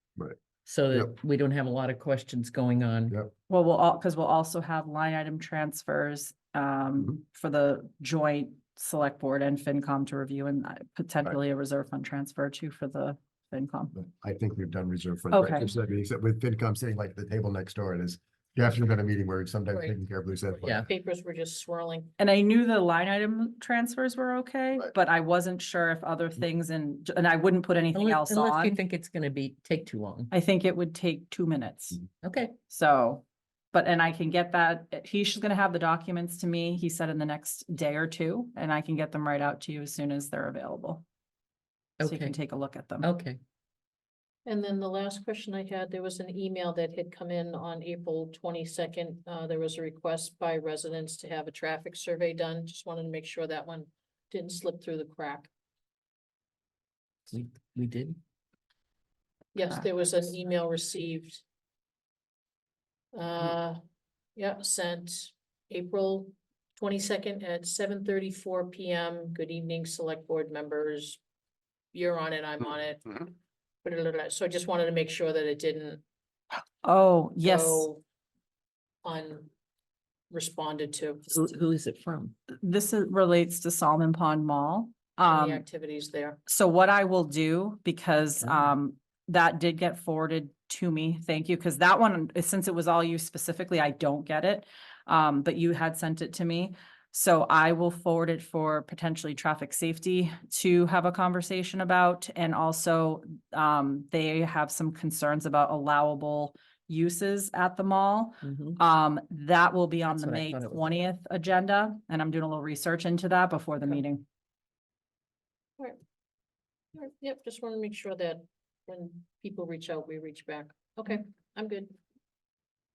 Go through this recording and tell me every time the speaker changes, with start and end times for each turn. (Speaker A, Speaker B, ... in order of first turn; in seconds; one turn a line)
Speaker A: 0.6-3.1
Speaker B: 3.5-13.9
Speaker C: 13.9-20.8
Speaker B: 15.3-15.7
Speaker D: 20.8-22.1
Speaker B: 22.2-28.8
Speaker A: 27.9-30.3
Speaker B: 30.3-32.0
Speaker A: 32.2-32.5
Speaker B: 32.7-41.0
Speaker A: 42.0-42.4
Speaker B: 42.0-43.1
Speaker A: 43.0-43.4
Speaker D: 44.5-55.5
Speaker A: 57.3-58.2
Speaker D: 59.5-61.4
Speaker D: 63.1-63.8
Speaker D: 64.3-71.2
Speaker D: 71.9-73.3
Speaker D: 73.8-76.0
Speaker B: 76.8-77.9
Speaker D: 77.4-78.0
Speaker D: 79.0-79.5
Speaker D: 80.3-81.4
Speaker A: 81.3-82.3
Speaker B: 82.6-85.6
Speaker D: 85.2-86.4
Speaker B: 86.5-114.2
Speaker A: 88.4-88.7
Speaker A: 108.4-108.8
Speaker A: 110.1-111.0
Speaker D: 116.9-121.9